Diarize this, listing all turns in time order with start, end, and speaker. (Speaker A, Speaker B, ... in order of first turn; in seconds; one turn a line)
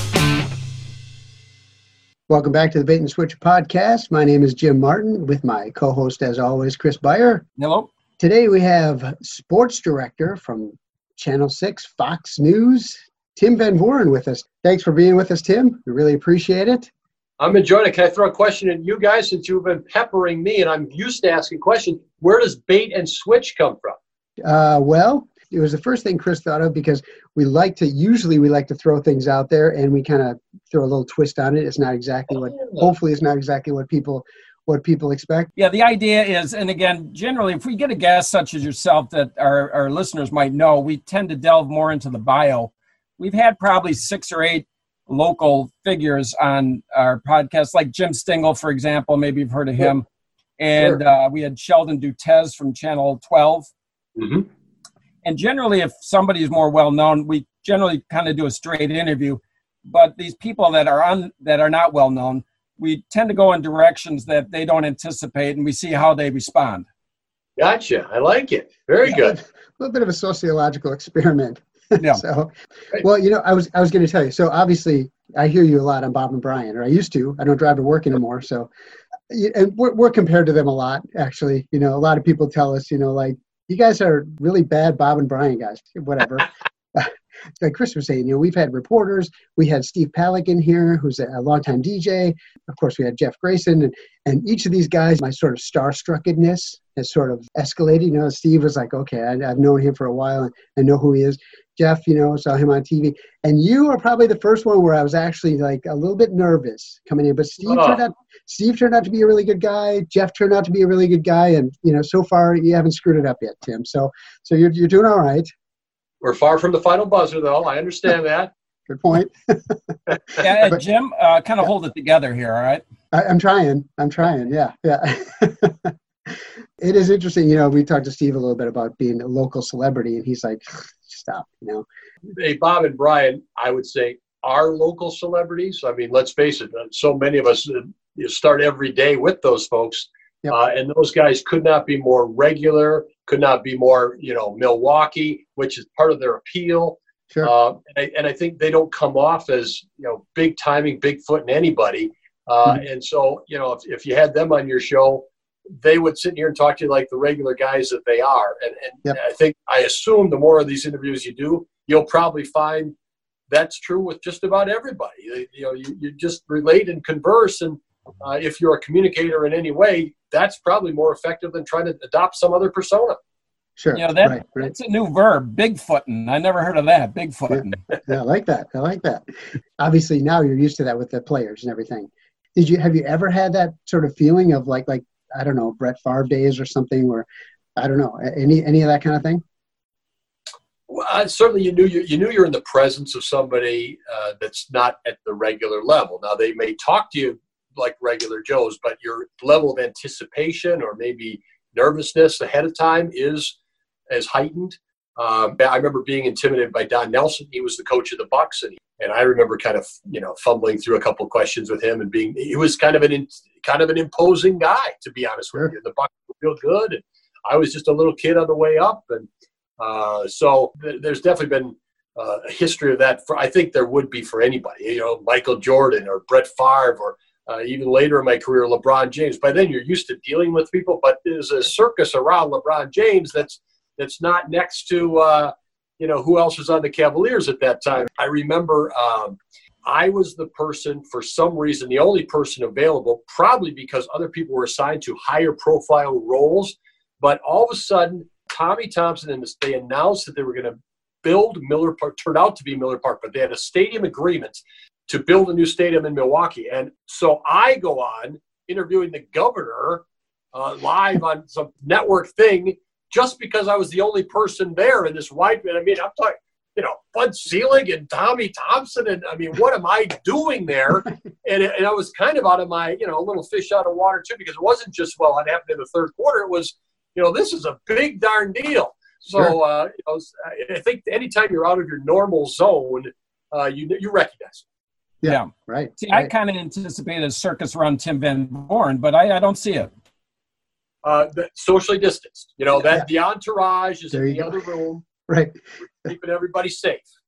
Speaker A: 2.3-7.4
Speaker B: 7.6-7.9
Speaker A: 8.2-16.9
Speaker C: 17.4-24.0
Speaker A: 24.4-35.5
Speaker B: 35.6-50.0
Speaker B: 50.6-53.7
Speaker C: 54.2-54.5
Speaker B: 55.2-66.8
Speaker C: 67.6-69.4
Speaker A: 69.0-78.7
Speaker B: 72.0-72.2
Speaker A: 79.3-115.5
Speaker C: 107.7-108.0
Speaker C: 116.2-118.5
Speaker A: 118.9-119.8
Speaker C: 120.1-120.3
Speaker B: 120.4-122.8
Speaker A: 123.1-125.9
Speaker A: 126.8-131.8
Speaker C: 132.3-155.2
Speaker C: 155.8-162.9
Speaker C: 163.5-173.2
Speaker A: 173.8-174.7
Speaker B: 173.9-177.8
Speaker A: 177.5-179.2
Speaker A: 179.8-189.4
Speaker C: 190.9-203.6
Speaker C: 204.1-219.3
Speaker C: 219.8-284.6
Speaker A: 285.2-286.3
Speaker B: 285.2-289.9
Speaker C: 291.0-295.0
Speaker A: 292.8-293.1
Speaker A: 294.1-294.6
Speaker A: 295.3-296.1
Speaker C: 296.0-297.1